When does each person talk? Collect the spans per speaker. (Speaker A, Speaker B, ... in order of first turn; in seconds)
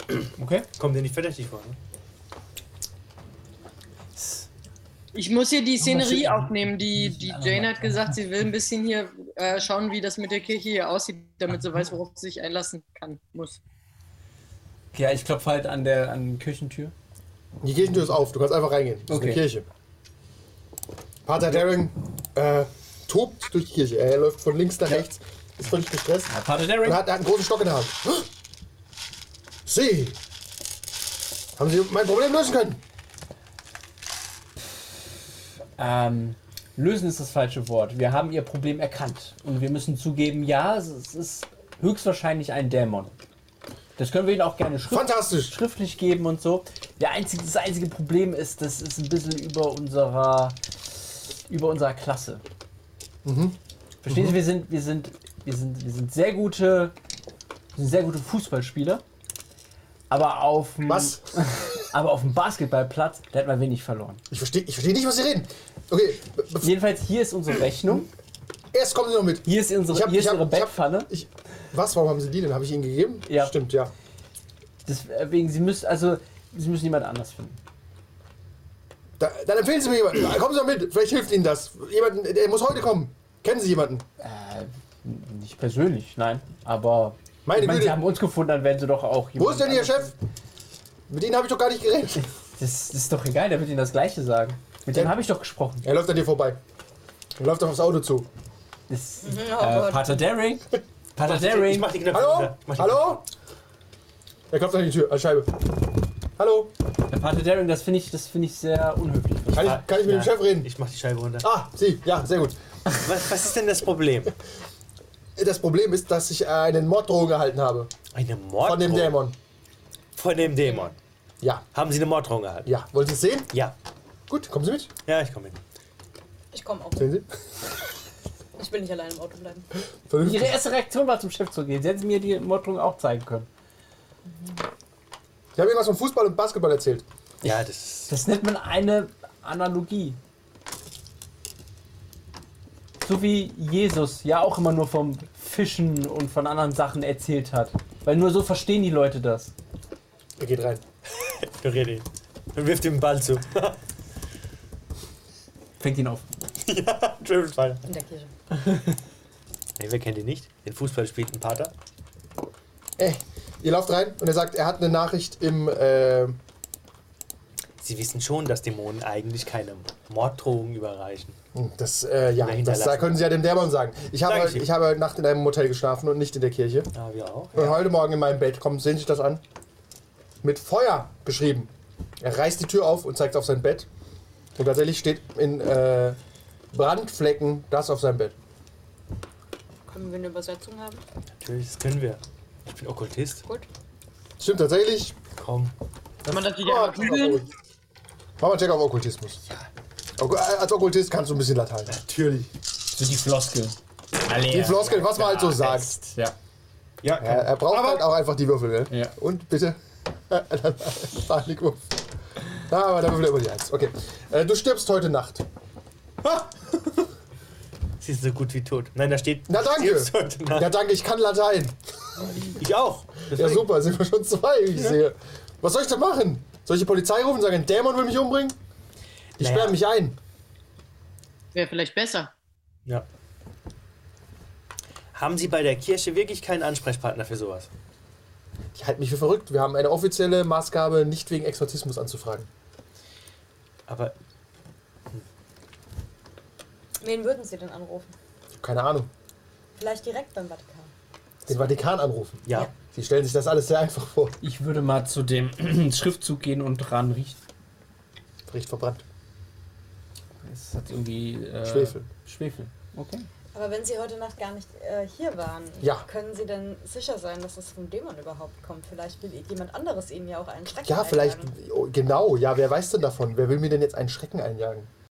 Speaker A: 0.4-0.7, 4.2-4.5, 5.8-8.1, 14.9-16.9, 19.1-19.4, 26.3-27.0, 35.8-43.1, 44.0-52.4, 54.0-56.9, 57.7-59.0, 60.1-64.2, 66.6-68.1, 69.4-71.1, 73.3-73.5, 74.8-77.6, 84.2-90.1, 92.5-95.9, 98.9-102.0, 107.1-110.1, 130.2-133.5, 138.1-140.2, 143.0-149.5, 155.8-156.3, 158.6-158.9, 202.9-206.3, 254.4-257.4, 260.4-263.3
Speaker B: 0.8-1.8, 101.2-103.2, 109.5-111.5, 113.0-114.4, 118.1-119.2, 120.2-121.0, 121.7-122.7, 125.0-125.6, 137.4-138.1, 151.2-153.8, 156.7-157.8, 159.8-161.7, 167.8-171.4, 172.4-173.2, 174.2-174.7, 176.9-177.7, 191.4-193.4, 195.4-195.7, 201.9-202.5, 207.0-208.1, 218.0-220.7, 222.4-223.7, 229.4-229.8, 235.1-237.7, 243.9-244.1
Speaker C: 5.1-13.6, 196.3-197.4, 231.5-232.3
Speaker D: 17.6-19.6, 21.2-28.3, 29.6-30.2, 31.6-32.8, 44.9-45.5, 53.2-53.6, 54.1-54.4, 60.9-61.8, 64.3-66.7, 68.7-73.9, 79.2-84.0, 87.5-88.0, 89.4-90.1, 91.1-92.3, 95.8-96.6, 97.4-98.3, 102.1-103.2, 104.5-106.7, 109.5-110.7, 111.4-112.6, 115.4-117.9, 118.6-119.4, 121.4-121.7, 122.6-123.5, 124.3-124.9, 127.0-127.3, 130.1-130.6, 135.6-137.0, 150.4-150.8, 163.0-166.4, 171.5-176.9, 177.5-179.4, 180.4-183.9, 184.6-186.2, 186.7-188.3, 194.4-195.1, 196.6-197.5, 198.4-199.4, 200.2-202.0, 204.5-205.9, 207.2-212.0, 212.5-215.4, 219.5-222.3, 223.3-228.6, 229.4-230.2, 238.7-242.5, 248.5-249.1, 251.5-254.4, 258.5-259.0, 261.6-262.1, 265.8-266.1, 270.8-274.9
Speaker E: 99.2-100.4, 120.7-120.9, 126.5-127.2, 128.6-129.7, 157.8-158.3, 189.9-191.0, 247.0-248.1, 249.7-250.9, 263.5-271.5